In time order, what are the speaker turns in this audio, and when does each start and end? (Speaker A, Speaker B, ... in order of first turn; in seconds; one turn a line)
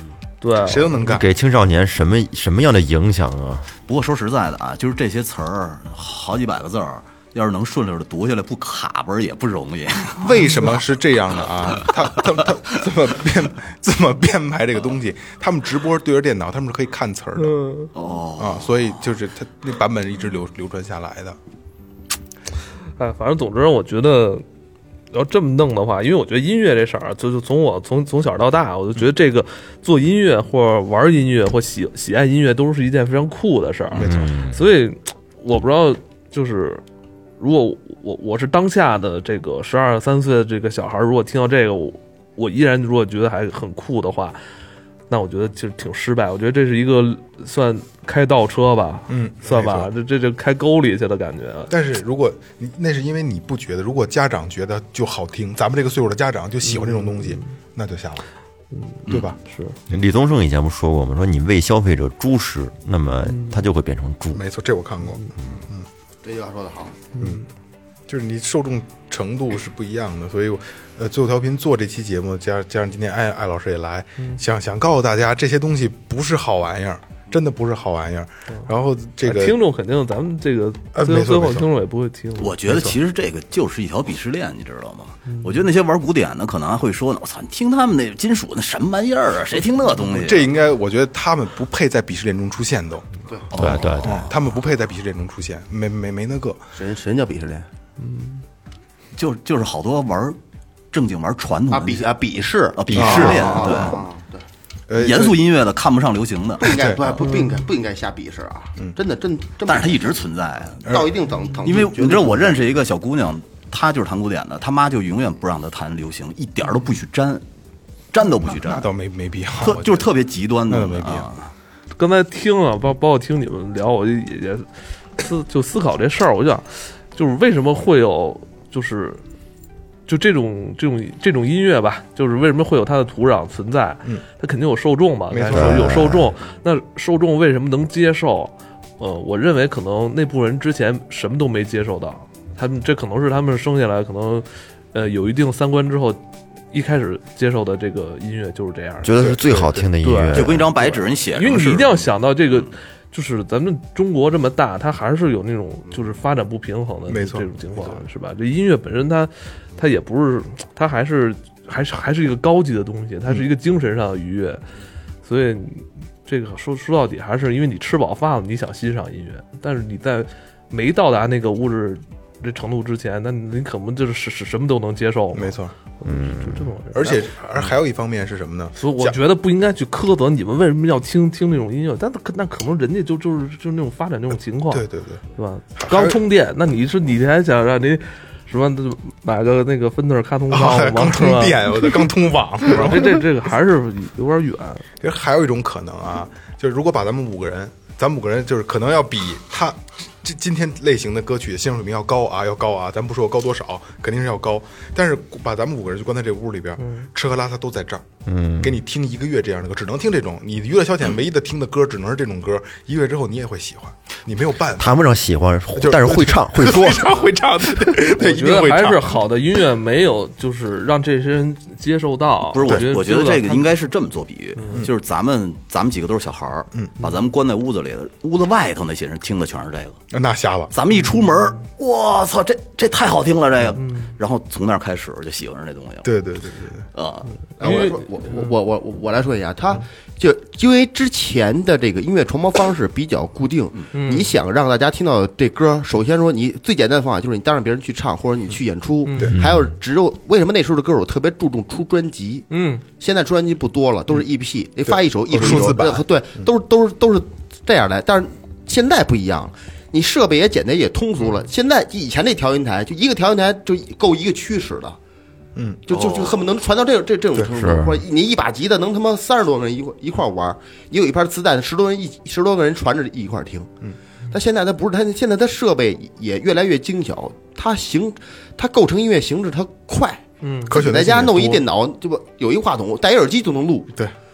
Speaker A: 0.4-1.0
Speaker B: 0.6-1.3
Speaker C: 1.0-3.7
Speaker D: 3.9-10.7
Speaker B: 10.2-17.6
Speaker D: 11.8-12.2
Speaker A: 17.4-17.9
Speaker D: 17.9-19.1
Speaker B: 18.4-21.4
Speaker A: 23.0-24.4
Speaker A: 25.1-36.8
Speaker B: 33.9-34.3
Speaker C: 34.0-34.6
Speaker A: 37.4-44.4
Speaker A: 45.1-51.7
Speaker B: 49.1-49.9
Speaker B: 51.7-58.2
Speaker A: 56.6-57.4
Speaker A: 58.7-59.8
Speaker B: 59.1-59.4
Speaker C: 59.9-64.4
Speaker A: 63.3-63.6
Speaker B: 64.3-65.9
Speaker E: 66.2-67.0
Speaker A: 67.2-67.5
Speaker B: 67.2-67.5
Speaker B: 68.1-79.6
Speaker A: 79.2-82.5
Speaker B: 80.9-81.7
Speaker D: 82.4-90.5
Speaker B: 82.7-83.0
Speaker B: 90.0-93.1
Speaker D: 93.5-94.2
Speaker C: 93.5-94.3
Speaker B: 94.0-96.6
Speaker E: 96.8-97.7
Speaker A: 98.0-98.4
Speaker D: 99.2-100.4
Speaker D: 100.9-102.1
Speaker E: 101.7-104.5
Speaker D: 102.8-104.0
Speaker B: 102.9-103.7
Speaker B: 104.9-105.4
Speaker D: 105.0-107.2
Speaker E: 106.6-110.2
Speaker B: 106.7-107.0
Speaker A: 107.2-107.6
Speaker D: 109.7-110.9
Speaker B: 110.8-111.1
Speaker E: 110.9-112.6
Speaker D: 111.6-117.4
Speaker D: 118.1-118.9
Speaker B: 118.5-120.1
Speaker D: 119.6-121.5
Speaker B: 120.7-121.3
Speaker A: 122.0-129.2
Speaker A: 130.1-146.2
Speaker B: 135.3-136.2
Speaker C: 135.5-136.3
Speaker A: 146.7-149.1
Speaker C: 149.0-150.7
Speaker B: 149.2-149.9
Speaker A: 150.0-164.6
Speaker D: 150.3-152.1
Speaker B: 157.1-158.0
Speaker A: 165.2-177.3
Speaker B: 175.3-175.7
Speaker C: 176.1-176.7
Speaker B: 176.9-179.2
Speaker A: 178.8-184.8
Speaker B: 184.7-185.2
Speaker A: 185.4-192.0
Speaker B: 185.8-186.2
Speaker B: 190.5-193.2
Speaker A: 192.7-194.8
Speaker B: 195.0-208.1
Speaker A: 206.8-207.1
Speaker C: 208.3-208.8
Speaker B: 208.6-215.0
Speaker C: 214.8-217.2
Speaker B: 215.7-219.2
Speaker A: 217.9-223.7
Speaker D: 222.5-230.0
Speaker A: 224.6-224.8
Speaker B: 230.1-230.7
Speaker D: 230.7-236.1
Speaker A: 230.9-231.6
Speaker A: 233.8-234.1
Speaker B: 236.0-236.9
Speaker D: 236.9-237.3
Speaker A: 237.6-238.5
Speaker E: 237.6-265.0
Speaker A: 243.9-244.3
Speaker A: 249.1-249.3
Speaker C: 249.3-249.7
Speaker A: 252.5-252.8
Speaker B: 254.9-256.1
Speaker B: 265.6-265.8
Speaker E: 265.9-273.7
Speaker D: 265.9-266.4
Speaker C: 267.5-268.0
Speaker E: 274.3-283.9
Speaker A: 280.4-280.7
Speaker B: 280.7-281.6